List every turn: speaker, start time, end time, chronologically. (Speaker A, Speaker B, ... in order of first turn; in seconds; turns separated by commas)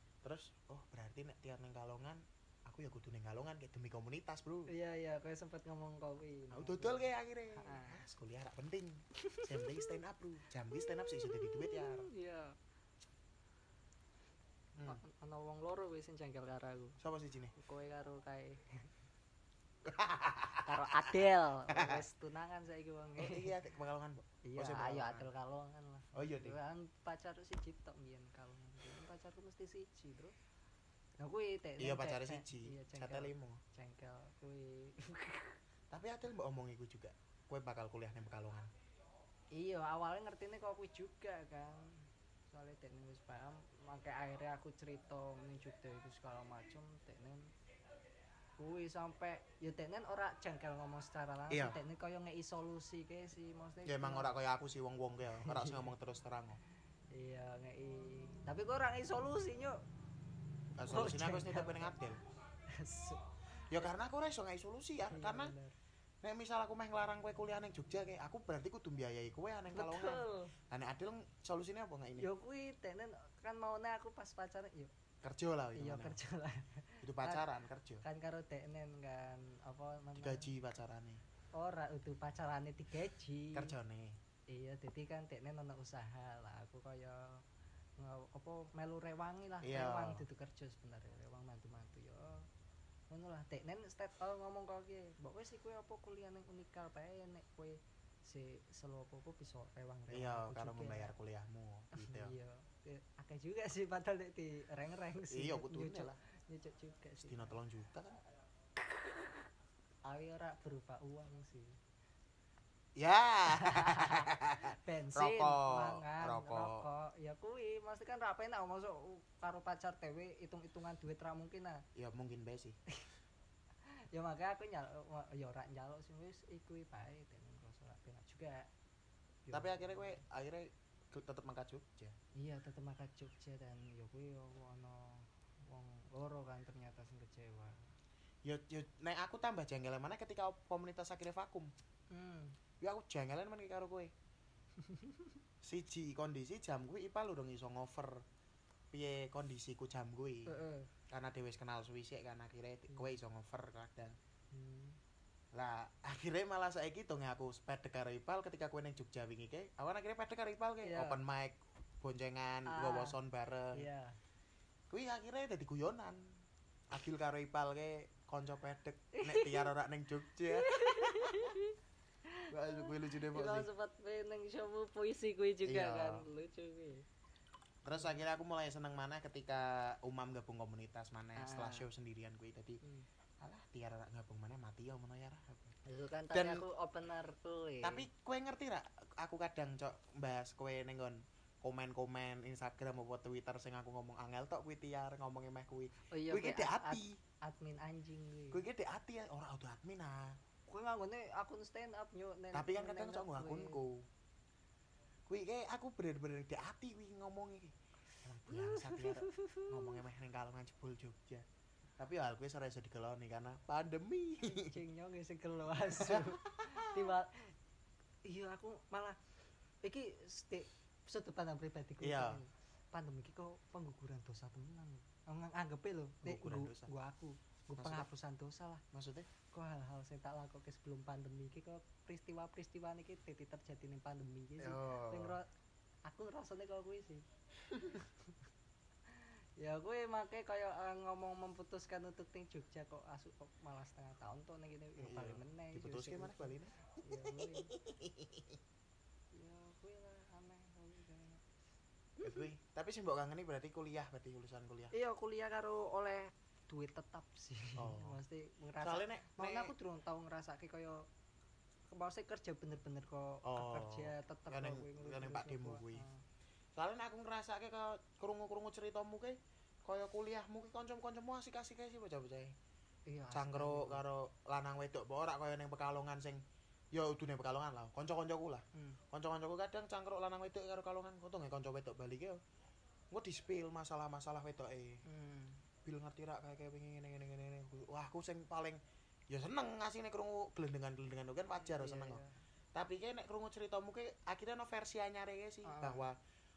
Speaker A: 0.2-4.7, Speaker B: 4.7-8.0, Speaker A: 6.5-12.1, Speaker B: 9.2-9.9, Speaker B: 10.7-12.6, Speaker A: 14.8-15.0, Speaker B: 14.8-17.0, Speaker A: 17.0-17.5, Speaker B: 17.6-18.9, Speaker A: 19.9-22.1, Speaker B: 20.6-23.5, Speaker A: 23.2-25.3, Speaker B: 24.4-30.3, Speaker A: 26.1-26.6, Speaker B: 31.2-35.6, Speaker A: 31.8-33.6, Speaker A: 35.9-38.7, Speaker B: 39.5-47.5, Speaker B: 48.6-54.3, Speaker A: 51.5-51.8, Speaker A: 53.9-56.6, Speaker B: 55.4-55.9, Speaker B: 57.1-59.8, Speaker A: 60.8-62.2, Speaker B: 60.9-62.0, Speaker B: 62.7-63.9, Speaker A: 63.7-65.5, Speaker B: 65.1-65.8, Speaker A: 66.2-72.3, Speaker B: 69.7-70.5, Speaker B: 72.2-74.9, Speaker A: 75.2-76.2, Speaker B: 75.8-77.5, Speaker A: 77.0-78.0, Speaker B: 78.0-80.5, Speaker A: 80.2-81.2, Speaker B: 81.6-83.8, Speaker A: 83.5-84.2, Speaker B: 84.5-87.4, Speaker B: 88.0-92.5, Speaker A: 89.6-90.2, Speaker B: 93.1-101.1, Speaker A: 100.1-102.3, Speaker B: 101.9-107.6, Speaker A: 105.3-106.2, Speaker A: 107.2-108.2, Speaker B: 108.8-109.5, Speaker B: 110.0-111.8, Speaker A: 113.0-116.9, Speaker B: 113.5-121.8, Speaker A: 122.0-122.8, Speaker B: 123.9-128.7, Speaker B: 129.5-130.2, Speaker A: 129.5-132.2, Speaker B: 132.4-137.9, Speaker A: 138.4-141.7, Speaker B: 142.1-142.6, Speaker A: 142.8-144.1, Speaker B: 144.8-145.4, Speaker A: 145.6-148.3, Speaker A: 148.9-154.2, Speaker B: 150.5-150.9, Speaker B: 154.5-155.0, Speaker A: 155.5-163.9, Speaker B: 160.8-161.2, Speaker B: 162.7-163.2, Speaker B: 163.7-164.2, Speaker A: 164.9-171.5, Speaker B: 169.1-169.7, Speaker B: 170.5-171.8, Speaker B: 172.3-177.1, Speaker A: 172.5-173.7, Speaker A: 175.7-176.3, Speaker A: 177.8-182.8, Speaker B: 181.4-181.9, Speaker A: 183.4-185.8, Speaker B: 185.9-188.1, Speaker A: 186.3-186.7, Speaker A: 187.8-197.2, Speaker B: 196.1-198.6, Speaker A: 198.5-200.4, Speaker B: 200.7-203.8, Speaker A: 202.5-204.1, Speaker A: 205.3-211.4, Speaker B: 208.5-210.0, Speaker A: 212.0-214.8, Speaker B: 214.4-217.5, Speaker A: 215.9-217.1, Speaker B: 218.2-219.2, Speaker B: 219.8-228.8, Speaker A: 222.0-222.4, Speaker A: 226.2-226.9, Speaker A: 227.8-228.1, Speaker A: 228.9-229.3, Speaker B: 229.5-235.5, Speaker A: 234.6-235.4, Speaker B: 236.1-237.3, Speaker A: 237.7-238.0, Speaker B: 239.2-247.7, Speaker A: 245.0-248.6, Speaker B: 249.3-251.4, Speaker B: 252.2-252.5, Speaker A: 252.2-254.9, Speaker B: 254.9-261.1, Speaker A: 257.8-258.2, Speaker A: 258.8-259.7, Speaker B: 261.9-266.2, Speaker A: 263.4-266.1, Speaker A: 266.8-272.6, Speaker B: 273.1-274.0, Speaker A: 273.3-282.4, Speaker B: 278.7-279.0, Speaker A: 283.1-285.1, Speaker B: 285.1-285.6, Speaker A: 285.9-292.2, Speaker B: 291.6-292.4, Speaker A: 292.7-296.2, Speaker B: 295.6-296.1